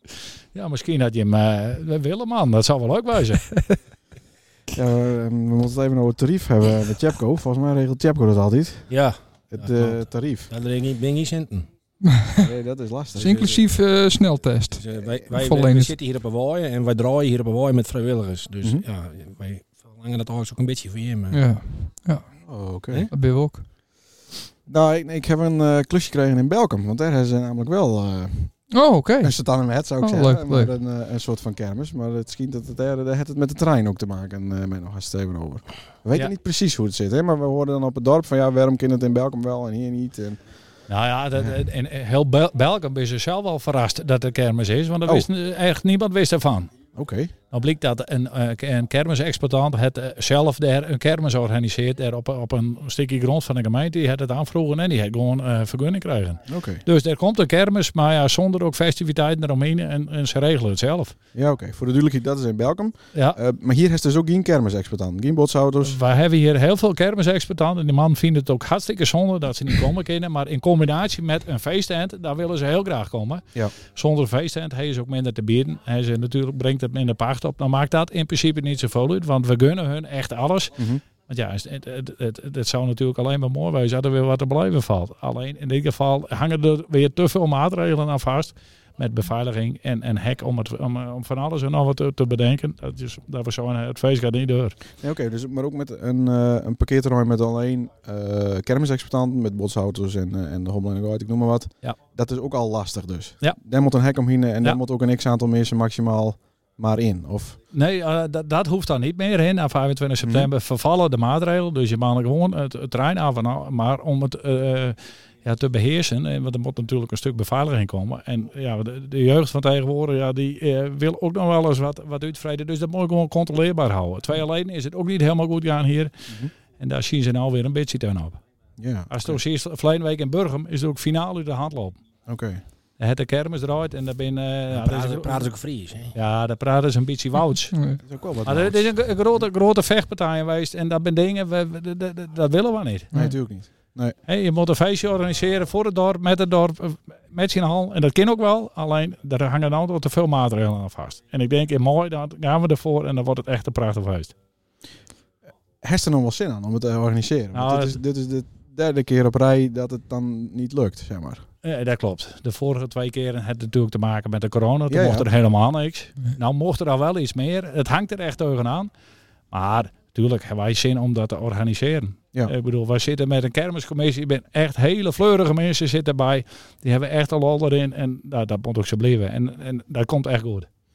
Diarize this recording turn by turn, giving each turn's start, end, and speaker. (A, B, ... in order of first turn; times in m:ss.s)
0:00.5-0:03.5 A
0:04.7-0:08.9 B
0:08.9-0:11.7 C
0:09.5-0:10.5 B
0:12.0-0:12.5 D
0:12.3-0:13.6 B
0:13.2-0:15.9 D
0:14.7-0:21.4 C
0:21.3-0:22.2 D
0:22.5-0:23.1 B
0:23.1-0:23.6 D
0:24.7-0:28.5 B
0:28.7-0:29.3 D
0:29.2-0:40.4 B
0:30.0-0:30.7 D
0:40.9-0:46.7 A
0:46.9-0:47.3 B
0:47.5-1:01.1 A
0:56.5-0:56.8 B
1:01.3-1:06.0 B
1:05.8-1:34.8 A
1:20.8-1:21.0 B
1:35.0-1:47.6 B
1:47.7-2:06.1 A
1:50.2-1:50.5 B
2:06.8-2:08.4 A
2:08.8-2:09.4 B
2:09.1-2:12.0 A
2:12.2-2:12.6 B
2:13.0-2:15.5 A
2:14.7-2:16.1 C
2:16.1-2:17.7 A
2:17.7-2:18.0 D
2:18.0-2:18.9 B
2:18.4-2:23.1 A
2:23.1-2:24.1 B
2:24.3-2:34.3 A
2:35.8-2:41.4 B
2:37.5-2:38.0 A
2:41.6-2:48.9 A
2:44.9-2:45.3 B
2:49.5-3:00.7 A